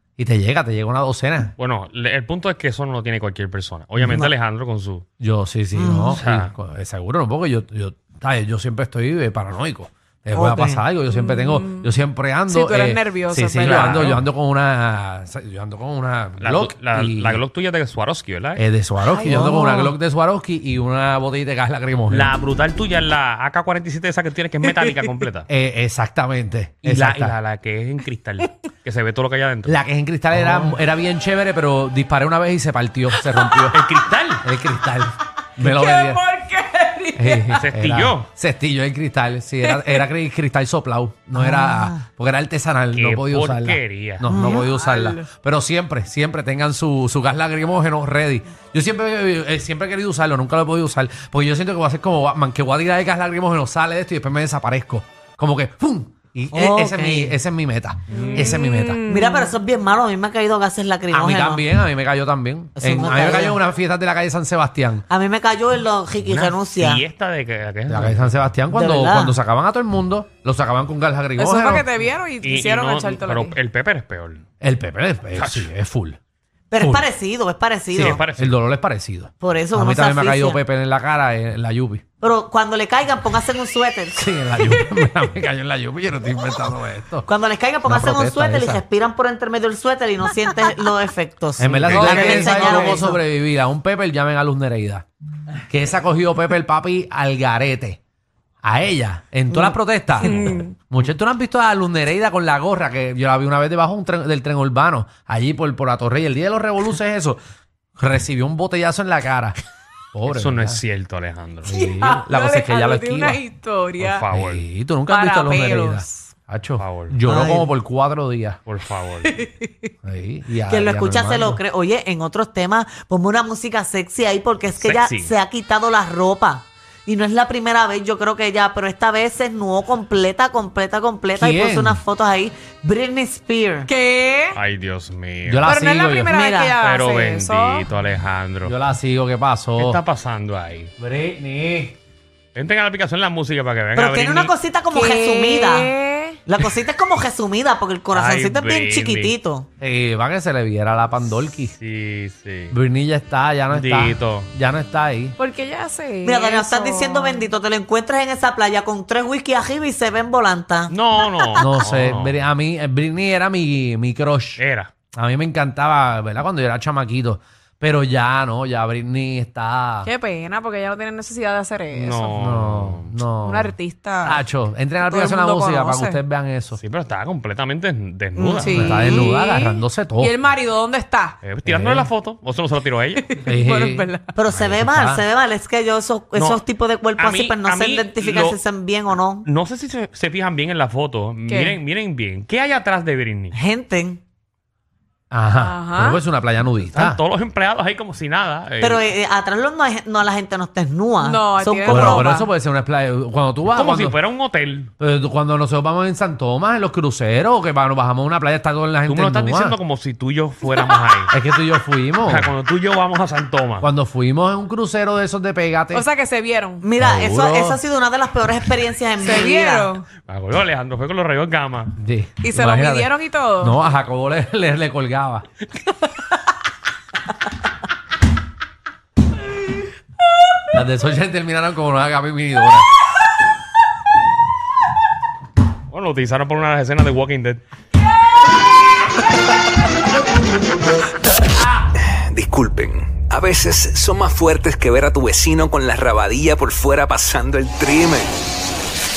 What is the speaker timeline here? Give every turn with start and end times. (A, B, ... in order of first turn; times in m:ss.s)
0:00.2-0:01.5 A
0:01.6-0:05.0 B
0:05.2-0:17.4 A
0:05.7-0:06.2 C
0:06.1-0:06.5 B
0:10.3-0:10.8 C
0:11.1-0:11.9 D
0:12.5-0:14.2 D
0:13.6-0:14.0 B
0:16.4-0:18.6 B
0:18.6-0:22.3 A
0:19.1-0:19.9 D
0:22.1-0:25.5 B
0:25.5-0:27.3 A
0:26.8-0:30.7 B
0:29.6-0:33.9 A
0:33.2-0:33.7 D
0:33.7-0:34.4 B
0:34.4-0:36.3 A
0:35.6-0:37.6 D
0:37.2-0:59.0 A
0:37.5-0:38.3 B
0:39.6-0:40.0 D
0:41.3-0:42.0 C
0:42.9-0:44.3 B
0:44.3-0:44.7 C
0:44.4-0:45.3 D
0:56.5-0:57.4 C
0:58.1-0:59.5 D
0:58.1-0:58.6 B
0:59.1-1:01.7 C
1:01.1-1:05.0 A
1:02.8-1:03.6 C
1:05.1-1:07.0 C
1:06.2-1:08.4 B
1:07.9-1:11.9 A
1:08.7-1:09.4 C
1:11.4-1:13.6 D
1:12.4-1:14.4 B
1:14.6-1:16.2 A
1:15.3-1:15.7 B
1:16.7-1:18.2 C
1:16.8-1:17.0 A
1:17.9-1:18.6 B
1:18.3-1:22.0 A
1:19.4-1:20.6 C
1:22.2-1:24.2 C
1:24.1-1:27.3 A
1:27.2-1:33.2 C
1:27.8-1:28.8 A
1:31.6-1:35.0 A
1:31.8-1:32.8 B
1:32.7-1:33.0 D
1:35.7-1:38.0 A
1:38.6-1:47.4 A
1:39.5-1:39.8 C
1:40.2-1:40.6 D
1:48.0-1:49.6 A
1:50.1-1:50.8 A
1:50.3-1:51.7 B
1:51.6-1:53.4 A
1:51.7-1:54.2 D
1:54.0-1:54.6 B
1:54.3-1:58.6 A
1:55.1-1:56.3 D
1:56.8-1:57.2 B
1:57.2-1:57.7 C
1:58.6-1:59.4 B
1:59.3-1:59.9 D
2:00.0-2:01.6 A
2:00.7-2:13.9 C
2:04.8-2:05.3 B
2:11.3-2:12.0 A
2:13.9-2:14.6 D
2:14.5-2:15.6 B
2:15.4-2:16.3 A
2:15.6-2:17.9 D
2:16.3-2:16.7 C
2:16.8-2:18.7 B
2:18.6-2:20.0 A
2:19.8-2:20.9 B
2:21.0-2:22.0 A
2:22.5-2:24.5 B
2:23.9-2:25.9 C
2:24.9-2:26.4 D
2:26.4-2:29.6 C
2:28.1-2:29.3 B
2:29.8-2:31.7 A
2:31.8-2:32.8 B
2:32.7-2:35.4 A
2:33.7-2:34.5 B
2:35.4-2:37.5 D
2:36.2-2:40.9 C
2:40.9-2:42.4 B
2:41.6-2:44.6 A
2:44.6-2:44.9 B
2:45.1-2:50.1 A
2:50.0-2:52.4 D
2:51.9-2:56.8 A
2:52.0-2:53.1 B
2:53.4-2:54.5 D
2:55.0-2:56.2 D
2:56.8-2:58.9 B
2:58.4-2:59.3 C
2:58.6-3:01.4 D
2:58.7-3:00.4 A
3:01.4-3:03.4 B
3:01.6-3:02.1 A
3:03.2-3:04.3 D
3:03.4-3:05.2 A
3:04.3-3:09.5 C
3:06.3-3:06.6 B
3:07.2-3:08.6 B
3:09.4-3:13.6 B
3:11.4-3:11.8 D
3:13.5-3:14.2 C
3:15.3-3:17.2 A
3:15.5-3:16.2 D
3:16.8-3:19.0 B
3:18.8-3:22.3 C
3:21.2-3:22.5 D
3:21.9-3:24.2 A
3:23.7-3:24.9 B
3:25.0-3:29.8 A
3:29.0-3:31.4 B
3:31.3-3:32.5 A
3:32.2-3:33.9 B
3:33.8-3:36.1 A
3:35.9-3:36.8 D
3:36.8-3:39.9 C
3:37.0-3:37.8 A
3:39.2-3:40.1 D
3:40.3-3:42.0 B
3:42.0-3:45.4 A
3:42.4-3:43.8 D
3:50.7-3:52.9 A
3:55.9-3:57.6 B
4:02.0-4:08.4 E